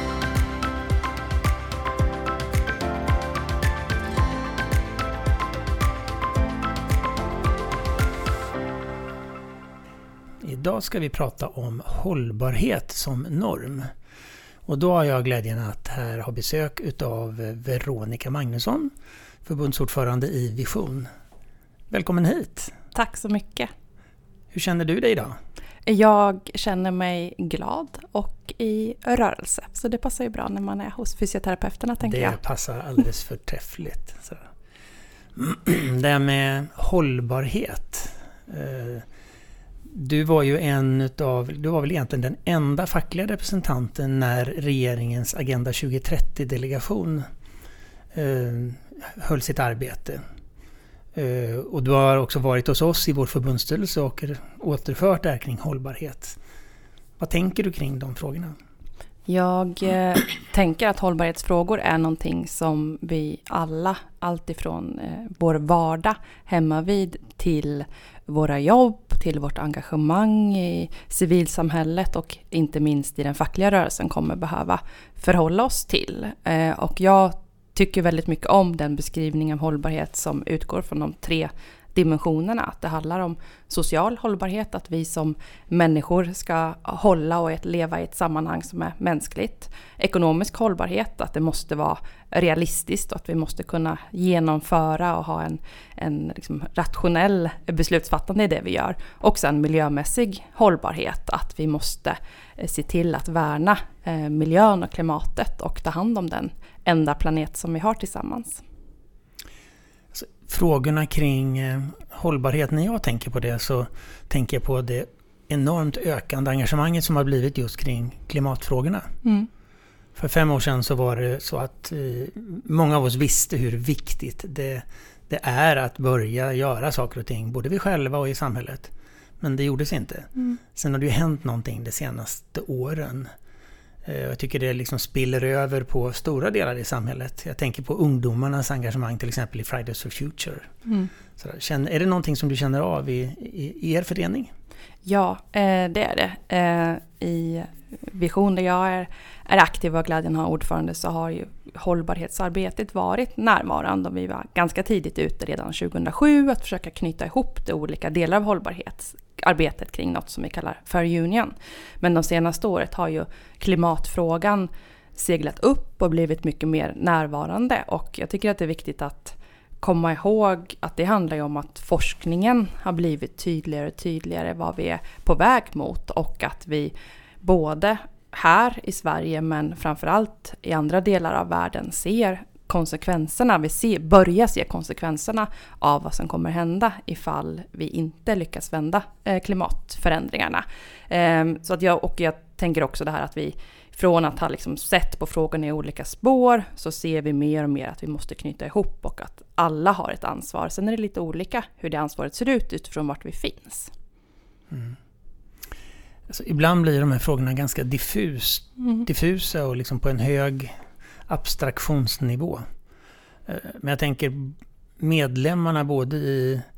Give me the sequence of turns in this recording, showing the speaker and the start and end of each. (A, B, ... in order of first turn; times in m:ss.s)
0:10.4-0:13.9 A
0:14.7-0:18.9 A
0:19.5-0:21.1 A
0:21.9-0:22.7 A
0:22.9-0:23.7 B
0:24.5-0:25.4 A
0:25.9-0:32.4 B
0:32.0-0:34.5 A
0:35.4-0:39.0 A
0:39.9-0:47.3 A
0:48.1-0:50.2 A
0:51.2-0:56.4 A
0:57.2-0:58.6 A
0:59.3-1:48.6 B
1:50.1-1:59.1 A
2:00.2-2:13.3 A
2:14.0-2:20.7 A
2:20.9-2:21.1 B
2:21.4-2:24.5 A
2:25.0-3:23.9 B
3:26.3-3:30.7 A
3:31.3-3:32.6 A
3:33.5-3:36.6 A